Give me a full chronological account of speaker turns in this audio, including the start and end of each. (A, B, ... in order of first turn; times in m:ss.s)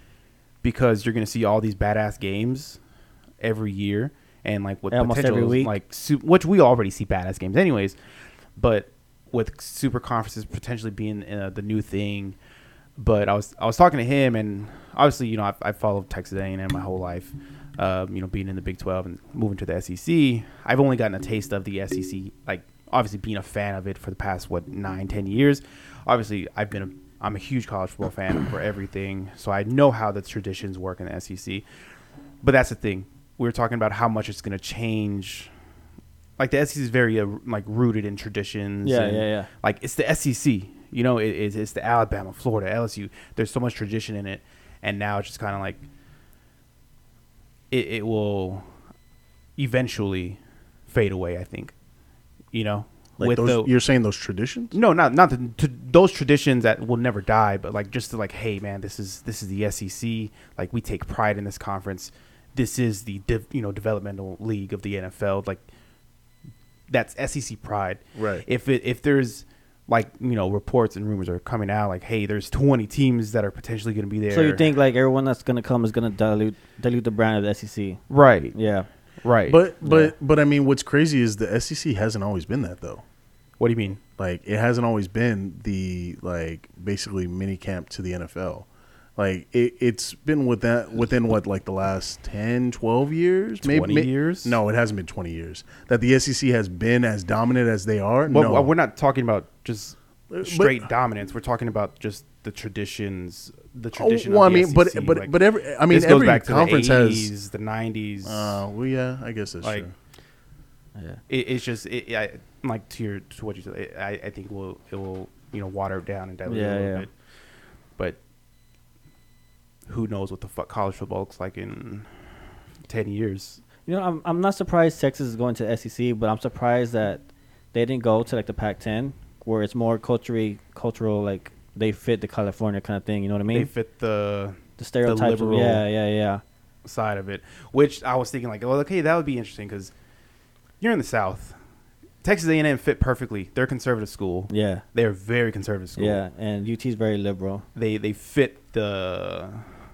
0:00.6-0:02.8 A
0:03.4-0:08.0 A
0:04.9-0:05.7 B
0:08.6-0:12.4 A
0:13.0-0:31.6 A
0:32.4-0:35.5 A
0:36.4-0:45.8 A
0:38.8-0:39.5 B
0:47.7-0:48.6 A
0:49.6-0:51.7 A
0:52.5-0:53.7 A
0:53.2-0:54.7 C
0:54.7-1:05.6 A
1:06.9-1:14.7 A
1:08.2-1:08.4 C
1:14.3-1:18.0 B
1:18.1-1:18.6 A
1:18.5-1:18.9 B
1:19.2-1:19.6 A
1:19.5-1:23.0 C
1:19.8-1:20.1 B
1:23.6-1:24.0 A
1:24.2-1:38.7 C
1:33.6-1:34.6 A
1:38.3-1:45.3 A
1:40.3-1:40.9 C
1:43.9-1:47.3 C
1:45.9-1:48.6 A
1:48.2-1:49.9 C
1:49.6-1:49.9 A
1:51.0-1:51.2 B
1:51.3-1:57.1 A
1:56.4-1:57.0 B
1:59.9-2:02.1 A
2:02.9-2:03.6 A
2:03.8-2:13.7 B
2:13.5-2:15.8 A
2:14.8-2:16.4 B
2:16.8-2:19.9 A
2:20.8-2:21.6 A
2:22.2-2:26.2 A
2:24.5-2:24.8 B
2:26.0-2:27.6 B
2:27.7-2:29.7 A